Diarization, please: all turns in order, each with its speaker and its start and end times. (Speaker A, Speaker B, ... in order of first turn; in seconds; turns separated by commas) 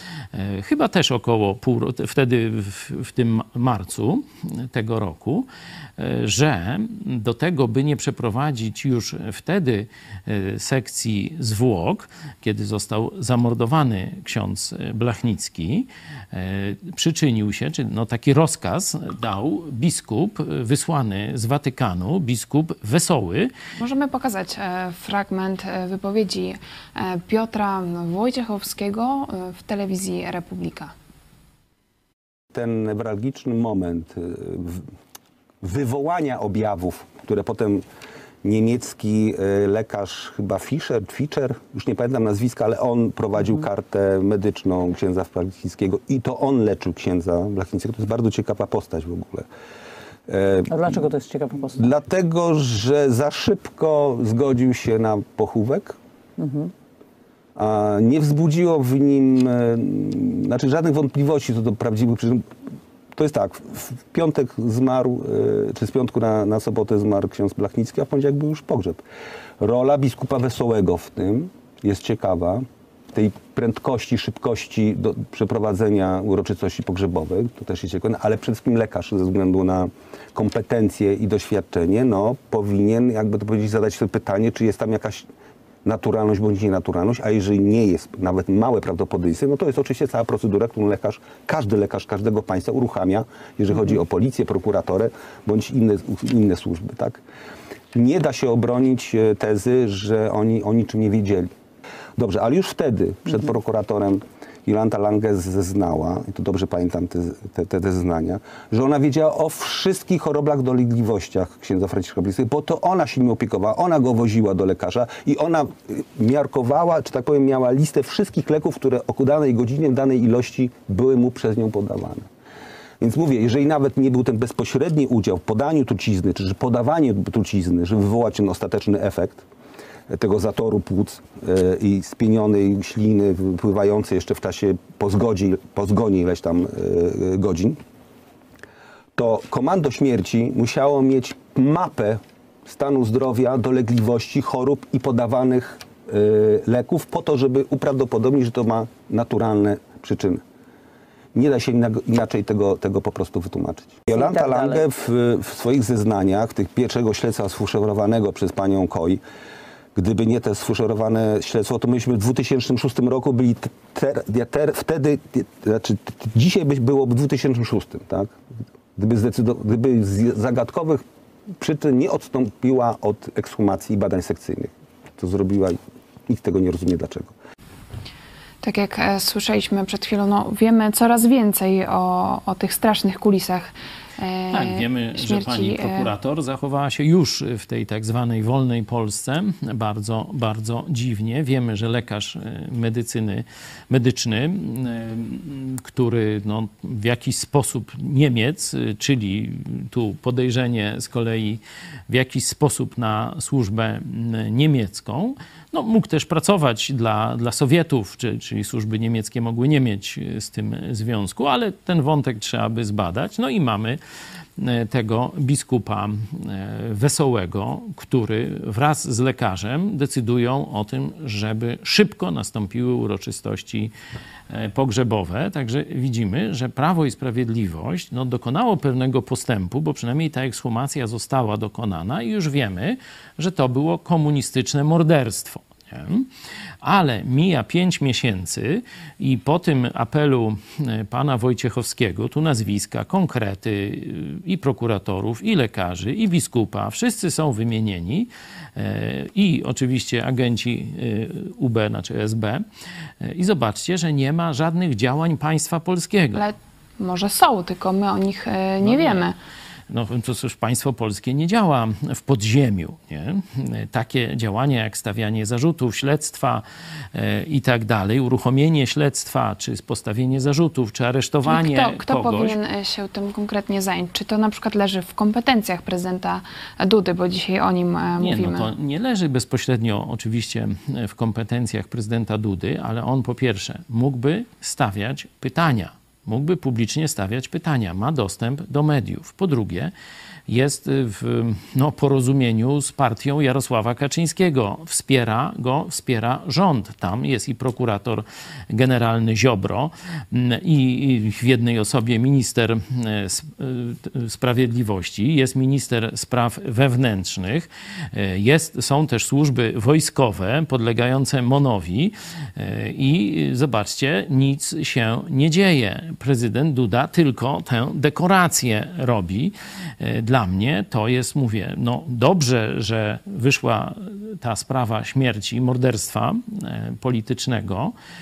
Speaker A: 0.3-23.5, Speaker B: 23.8-30.9, Speaker C: 32.5-34.9, Speaker C: 35.6-37.8, Speaker C: 38.4-49.5, Speaker C: 50.3-51.0, Speaker D: 50.7-51.9, Speaker C: 51.7-56.0, Speaker D: 56.4-56.7, Speaker C: 57.6-62.5, Speaker C: 63.1-69.0, Speaker C: 69.6-85.3, Speaker C: 85.8-97.2, Speaker C: 97.9-101.5, Speaker C: 102.2-122.3, Speaker C: 123.0-129.4, Speaker C: 130.1-137.8, Speaker C: 139.2-150.4, Speaker C: 151.3-159.2, Speaker D: 154.1-154.8, Speaker C: 159.9-168.4, Speaker C: 169.0-171.0, Speaker C: 171.6-177.3, Speaker B: 178.6-186.1, Speaker A: 184.5-214.0, Speaker A: 214.6-223.9, Speaker A: 224.5-236.3, Speaker A: 236.8-252.6, Speaker A: 253.2-256.4, Speaker B: 256.3-259.4, Speaker A: 258.8-259.3, Speaker A: 259.9-272.6, Speaker B: 271.5-278.7, Speaker A: 278.2-289.9, Speaker A: 290.5-327.9